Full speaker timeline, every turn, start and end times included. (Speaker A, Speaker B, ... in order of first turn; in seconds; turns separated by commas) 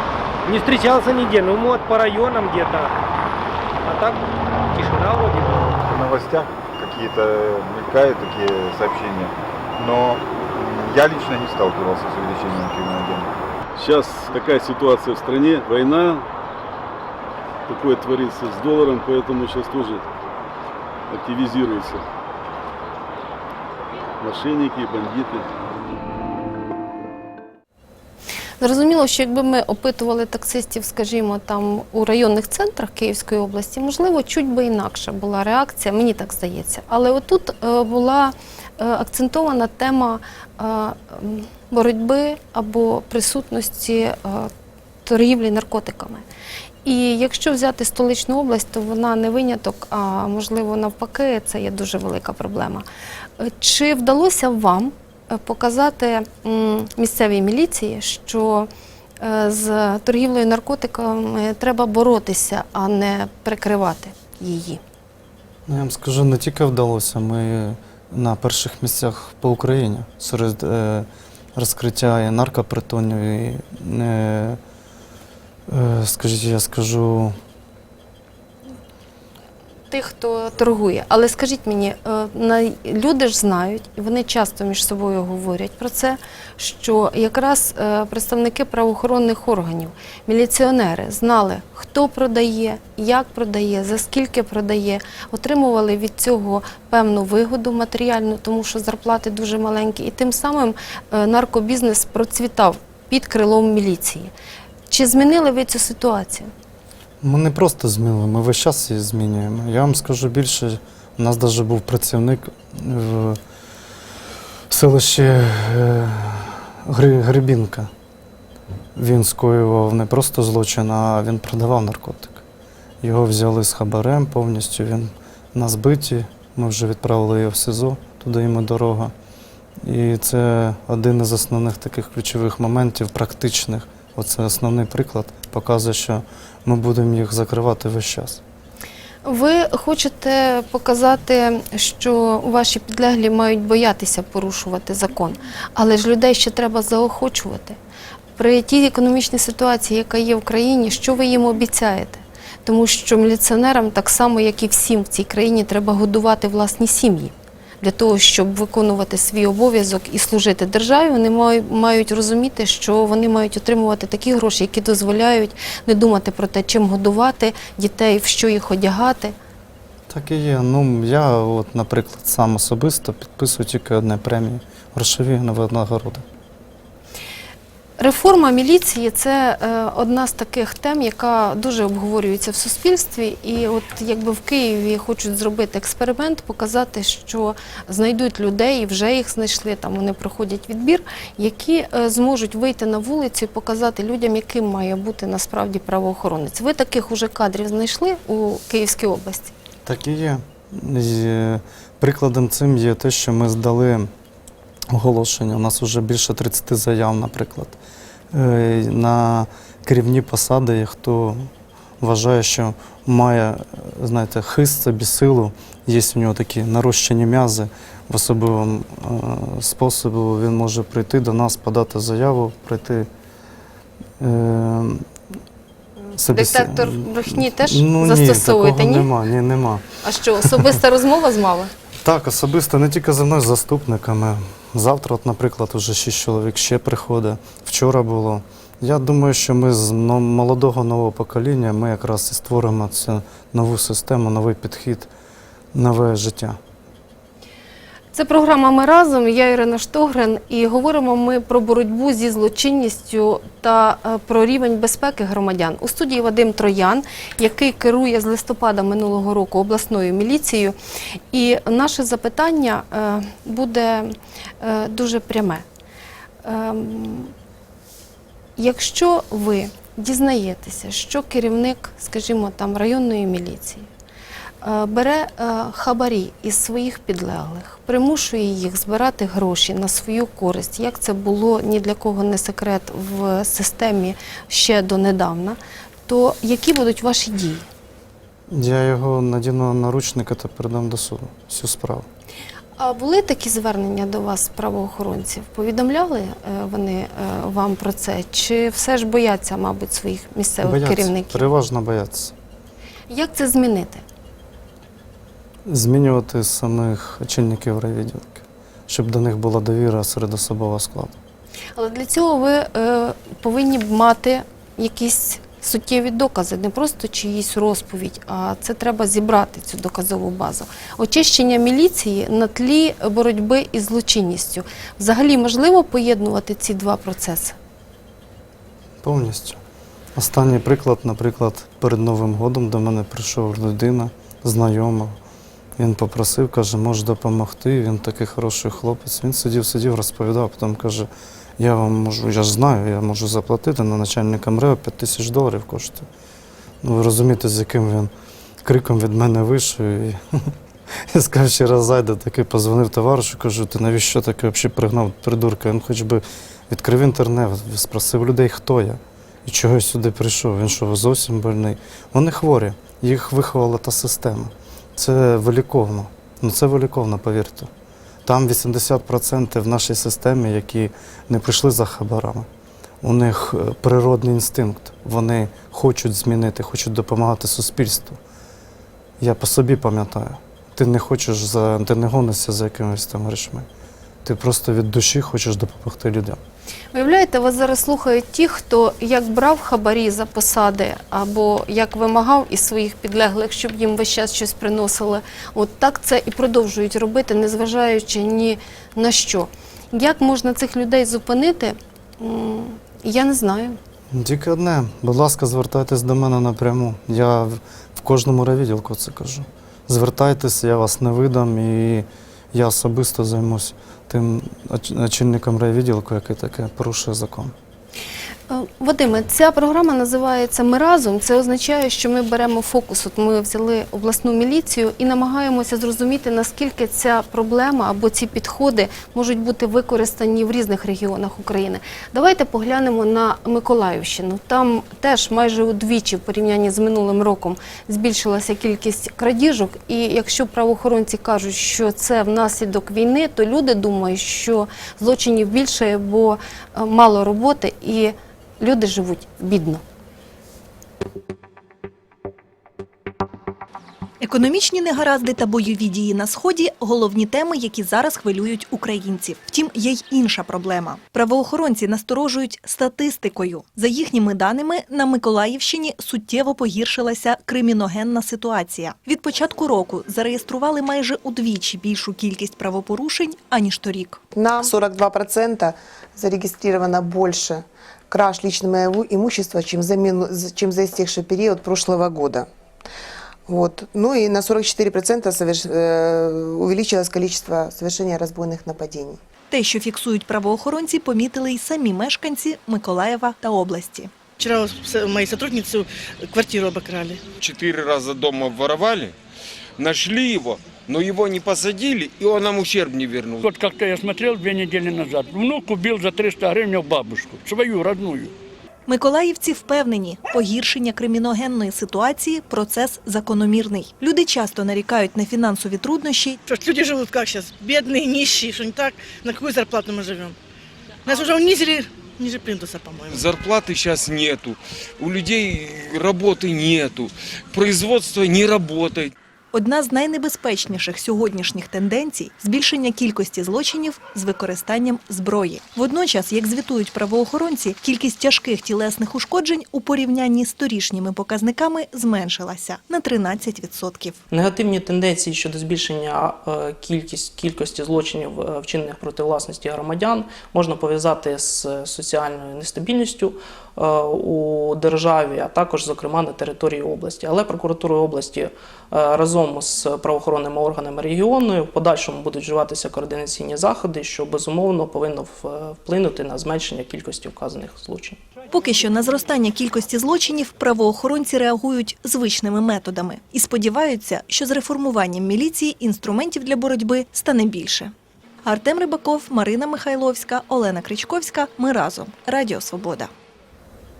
Speaker A: 0.4-3.0, Speaker A: 3.8-5.8, Speaker B: 5.8-13.3, Speaker C: 13.8-16.2, Speaker C: 17.7-20.1, Speaker C: 21.1-22.0, Speaker C: 24.2-25.5, Speaker D: 28.6-44.5, Speaker D: 45.0-46.2, Speaker D: 46.8-52.8, Speaker D: 53.4-58.7, Speaker D: 59.2-64.8, Speaker E: 65.7-74.6, Speaker E: 75.7-77.3, Speaker D: 79.9-104.3, Speaker D: 104.9-106.5, Speaker E: 107.2-113.4, Speaker E: 114.7-117.9, Speaker E: 118.9-122.4, Speaker E: 123.0-129.1, Speaker E: 129.8-138.4, Speaker D: 139.2-147.8, Speaker D: 148.4-169.3, Speaker E: 170.1-176.2, Speaker D: 178.0-199.5, Speaker E: 199.8-204.1, Speaker E: 204.9-207.8, Speaker E: 208.3-223.1, Speaker E: 224.2-225.1, Speaker E: 226.2-229.8, Speaker D: 226.3-229.1, Speaker D: 230.0-231.7, Speaker E: 230.4-230.7, Speaker E: 232.0-245.1, Speaker E: 245.7-246.6, Speaker D: 248.1-260.8, Speaker D: 261.3-265.6, Speaker D: 266.4-267.3, Speaker D: 268.6-273.9, Speaker D: 274.6-287.6, Speaker E: 288.5-292.1, Speaker D: 292.8-301.5, Speaker E: 300.6-302.3, Speaker D: 303.1-304.0, Speaker E: 305.6-311.1, Speaker D: 311.8-327.6, Speaker E: 329.0-329.6, Speaker E: 330.1-335.2, Speaker E: 335.8-346.1, Speaker E: 346.8-348.1, Speaker E: 348.6-367.7, Speaker E: 368.2-372.5, Speaker E: 373.0-378.2, Speaker E: 379.2-383.7, Speaker E: 384.2-386.4, Speaker D: 386.9-403.8, Speaker E: 404.1-417.5, Speaker D: 418.5-449.8, Speaker F: 454.2-474.2, Speaker G: 474.3-482.5, Speaker G: 483.5-489.2, Speaker F: 489.5-494.1, Speaker H: 494.4-497.2, Speaker I: 497.4-499.1, Speaker I: 499.8-503.5, Speaker J: 503.4-508.3, Speaker F: 508.9-516.4, Speaker H: 516.5-520.3, Speaker H: 521.0-523.2, Speaker I: 523.1-529.1, Speaker F: 529.5-544.2, Speaker K: 544.3-568.2, Speaker F: 568.5-583.1